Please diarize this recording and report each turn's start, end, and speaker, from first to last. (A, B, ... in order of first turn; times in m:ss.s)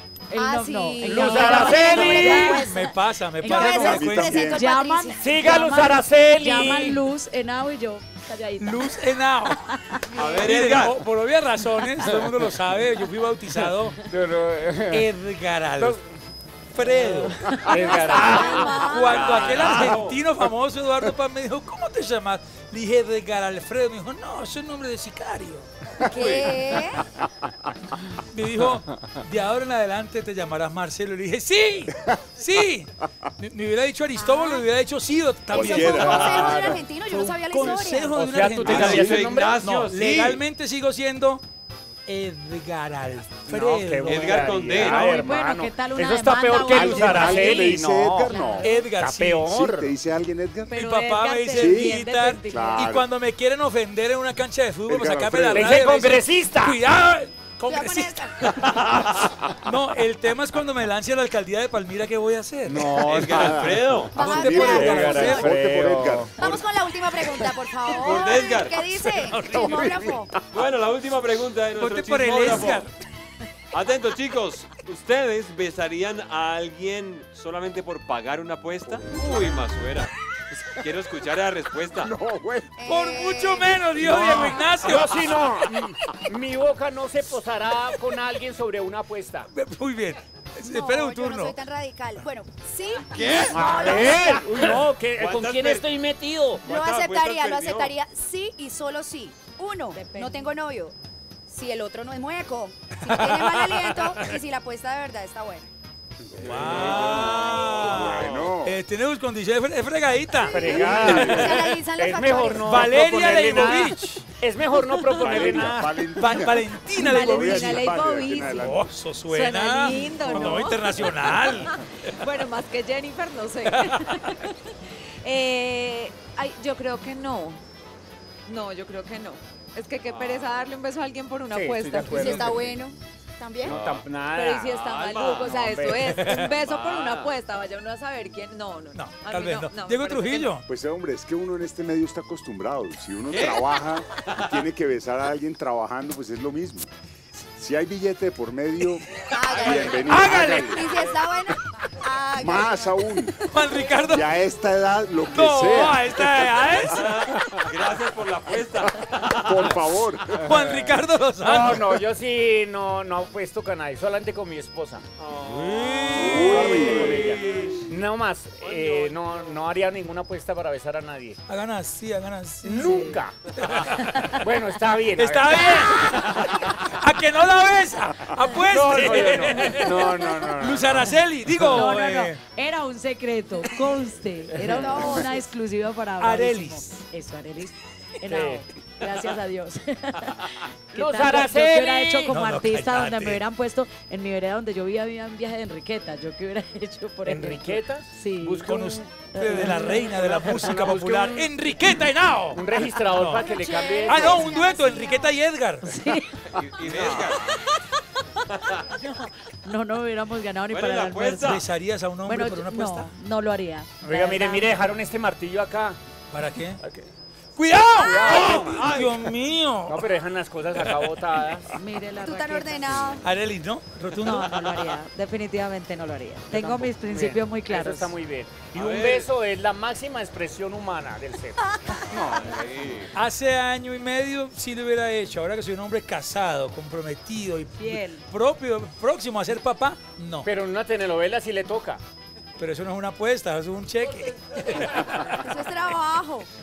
0:00.3-0:10.0 A
0:00.3-0:02.8 B
0:01.0-0:02.6 C
0:02.0-0:04.4 D
0:03.4-0:05.5 B
0:03.5-0:04.6 E
0:05.2-0:07.0 C
0:08.6-0:14.0 D
0:10.1-0:10.9 F
0:12.0-0:12.3 C
0:13.5-0:15.1 C
0:14.9-0:16.0 D
0:15.8-0:16.0 C
0:16.7-0:25.7 D
0:17.1-0:18.8 C
0:17.2-0:18.3 A
0:17.9-0:19.6 B
0:18.9-0:20.2 F
0:26.0-0:27.0 B
0:26.1-0:26.6 F
0:28.3-0:41.4 D
0:34.2-0:34.6 B
0:35.5-0:36.5 E
0:35.5-0:38.2 B
0:35.9-0:36.8 C
0:36.1-0:36.4 F
0:38.1-0:39.6 C
0:38.6-0:40.4 F
0:38.7-0:39.2 E
0:42.1-0:44.9 D
0:43.4-0:50.0 C
0:44.0-0:45.1 F
0:44.8-0:48.9 A
0:46.7-0:48.6 E
0:48.6-0:49.5 D
0:49.5-0:50.8 E
0:50.7-0:52.9 A
0:50.7-1:05.5 D
0:51.5-0:53.0 E
0:54.9-0:55.8 E
0:55.5-0:56.8 C
0:57.6-0:58.4 B
0:58.4-0:59.3 F
1:02.6-1:03.5 C
1:02.7-1:06.4 E
1:03.1-1:04.2 F
1:04.1-1:05.5 B
1:04.6-1:06.3 C
1:06.4-1:10.3 B
1:07.3-1:08.2 D
1:08.0-1:08.8 F
1:08.8-1:10.0 D
1:09.5-1:10.3 E
1:10.4-1:12.8 F
1:11.8-1:12.9 D
1:13.7-1:20.1 F
1:18.9-1:19.5 E
1:20.7-1:22.1 F
1:22.0-1:22.8 E
1:22.8-1:24.8 B
1:22.8-1:25.4 D
1:24.0-1:29.5 C
1:24.1-1:24.4 E
1:29.5-1:31.6 D
1:30.6-1:34.6 B
1:33.1-1:34.0 F
1:33.5-1:36.6 C
1:35.2-1:35.9 F
1:36.6-1:37.9 F
1:36.6-1:40.9 B
1:39.9-1:40.6 A
1:41.5-1:45.7 B
1:43.0-1:44.3 D
1:46.3-1:48.8 E
1:46.4-1:51.8 D
1:46.4-1:48.5 F
1:50.4-1:53.1 B
1:50.4-1:55.9 C
1:51.0-1:51.5 E
1:52.5-1:54.3 D
1:55.0-1:55.2 G
1:55.2-1:58.8 E
1:55.5-1:57.9 D
1:57.0-1:58.7 G
1:58.4-2:02.3 D
1:59.3-2:04.5 G
2:00.1-2:00.6 E
2:03.6-2:04.3 D
2:05.2-2:07.6 G
2:08.5-2:12.4 G
2:10.0-2:10.6 F
2:11.5-2:12.7 C
2:12.1-2:12.6 D
2:12.1-2:13.8 B
2:13.6-2:16.4 C
2:13.6-2:14.0 F
2:14.2-2:20.6 G
2:14.8-2:15.6 F
2:16.1-2:16.5 D
2:16.2-2:17.3 F
2:18.9-2:20.6 D
2:20.6-2:26.9 E
2:23.3-2:23.7 F
2:24.2-2:24.5 F
2:27.5-2:30.9 E
2:29.1-2:30.9 D
2:29.3-2:33.3 B
2:29.5-2:29.9 F
2:32.4-2:33.4 E
2:33.3-2:34.2 D
2:34.1-2:36.9 E
2:35.3-2:37.5 D
2:36.9-2:39.8 F
2:39.4-2:40.9 E
2:40.4-2:45.0 C
2:40.4-2:41.9 D
2:45.2-2:47.9 F
2:45.5-2:47.0 D
2:46.2-2:47.2 E
2:46.2-2:51.4 C
2:48.6-2:49.3 F
2:51.5-2:54.4 D
2:52.6-2:53.5 C
2:52.7-2:53.2 A
2:53.8-2:54.4 A
2:54.4-2:56.0 C
2:55.1-3:02.4 D
2:58.6-3:01.7 C
3:01.7-3:18.8 A
3:04.7-3:05.4 B
3:06.2-3:06.9 D
3:08.2-3:08.6 C
3:10.9-3:12.4 C
3:12.3-3:13.4 D
3:17.2-3:21.5 C
3:18.4-3:23.5 D
3:19.3-3:20.0 A
3:22.5-3:24.5 C
3:23.2-3:25.3 B
3:24.0-3:25.9 D
3:25.8-3:26.6 A
3:26.5-3:27.5 F
3:26.9-3:27.6 D
3:26.9-3:27.3 C
3:27.4-3:27.6 A
3:28.8-3:31.6 A
3:30.7-3:31.6 F
3:31.4-3:33.1 D
3:32.2-3:34.9 A
3:34.0-3:36.0 C
3:36.3-3:36.8 D
3:36.8-3:37.1 C
3:37.6-3:40.0 D
3:38.0-3:39.0 C
3:38.3-3:39.2 F
3:39.9-3:41.7 C
3:41.7-3:43.2 A
3:42.2-3:43.2 B
3:43.2-3:44.5 D
3:44.2-3:48.1 A
3:46.5-3:52.5 C
3:48.7-3:49.3 F
3:51.7-3:52.4 B
3:52.2-3:53.1 F
3:53.1-4:00.5 D
3:57.8-3:58.2 A
4:00.4-4:02.0 C
4:02.6-4:05.6 D
4:05.4-4:06.5 B